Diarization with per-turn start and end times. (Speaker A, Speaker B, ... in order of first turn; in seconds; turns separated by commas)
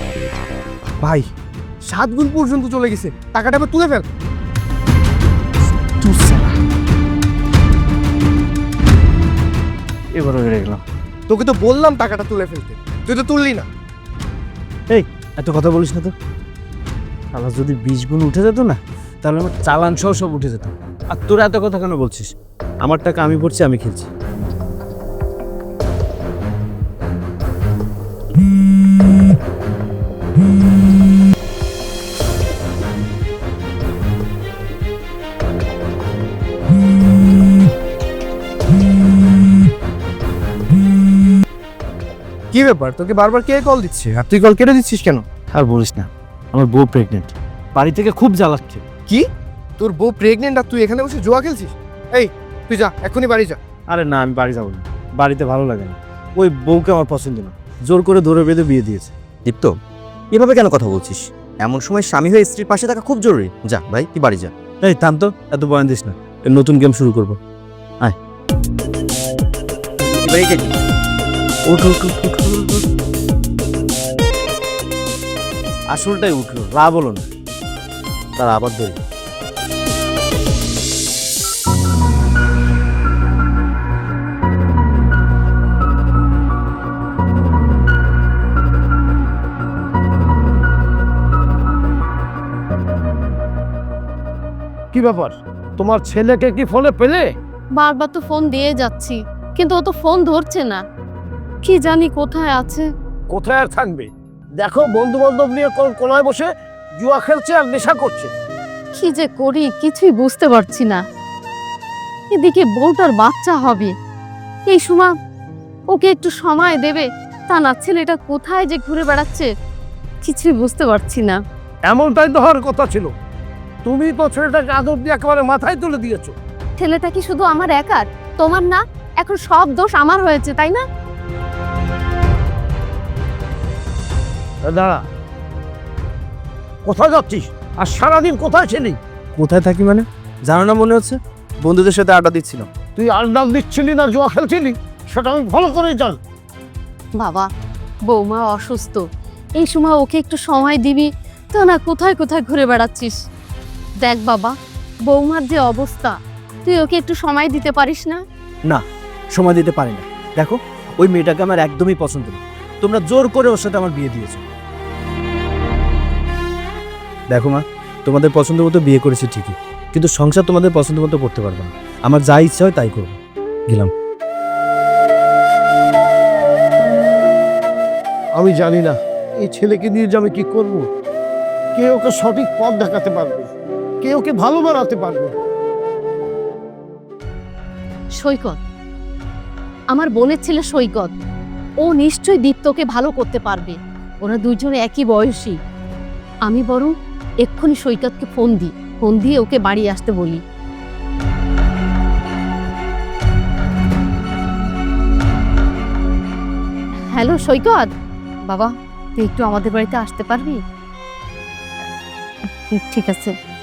Speaker A: 1.0-1.2, Speaker A: 1.9-4.0, Speaker A: 6.0-6.6, Speaker B: 10.1-10.8, Speaker A: 11.3-13.7, Speaker B: 14.9-16.1, Speaker B: 17.3-22.3, Speaker B: 22.8-24.1, Speaker A: 42.5-45.2, Speaker B: 45.5-48.8, Speaker A: 49.8-53.6, Speaker B: 53.9-59.1, Speaker C: 59.5-59.7, Speaker C: 60.3-64.5, Speaker B: 64.8-67.4, Speaker C: 70.0-70.7, Speaker B: 71.7-72.8, Speaker B: 75.9-77.2, Speaker B: 78.4-79.0, Speaker D: 94.9-97.2, Speaker E: 97.8-100.8, Speaker E: 101.6-102.9, Speaker D: 103.3-108.3, Speaker E: 109.0-111.0, Speaker E: 112.3-113.9, Speaker E: 114.7-115.1, Speaker E: 115.9-119.5, Speaker E: 120.2-121.4, Speaker D: 121.8-123.1, Speaker D: 123.8-126.3, Speaker E: 126.8-130.8, Speaker D: 134.6-135.0, Speaker D: 136.8-139.0, Speaker B: 139.3-142.7, Speaker D: 143.0-146.2, Speaker E: 147.2-147.5, Speaker E: 148.1-149.0, Speaker E: 149.6-153.1, Speaker E: 154.0-154.5, Speaker E: 155.1-158.2, Speaker B: 158.7-164.4, Speaker B: 167.3-173.2, Speaker D: 178.3-180.8, Speaker D: 181.7-183.5, Speaker D: 184.0-185.3, Speaker E: 188.2-188.6, Speaker E: 189.9-191.1, Speaker E: 191.8-195.6, Speaker E: 196.4-200.4, Speaker E: 207.1-207.9, Speaker E: 208.4-210.6, Speaker E: 212.5-213.3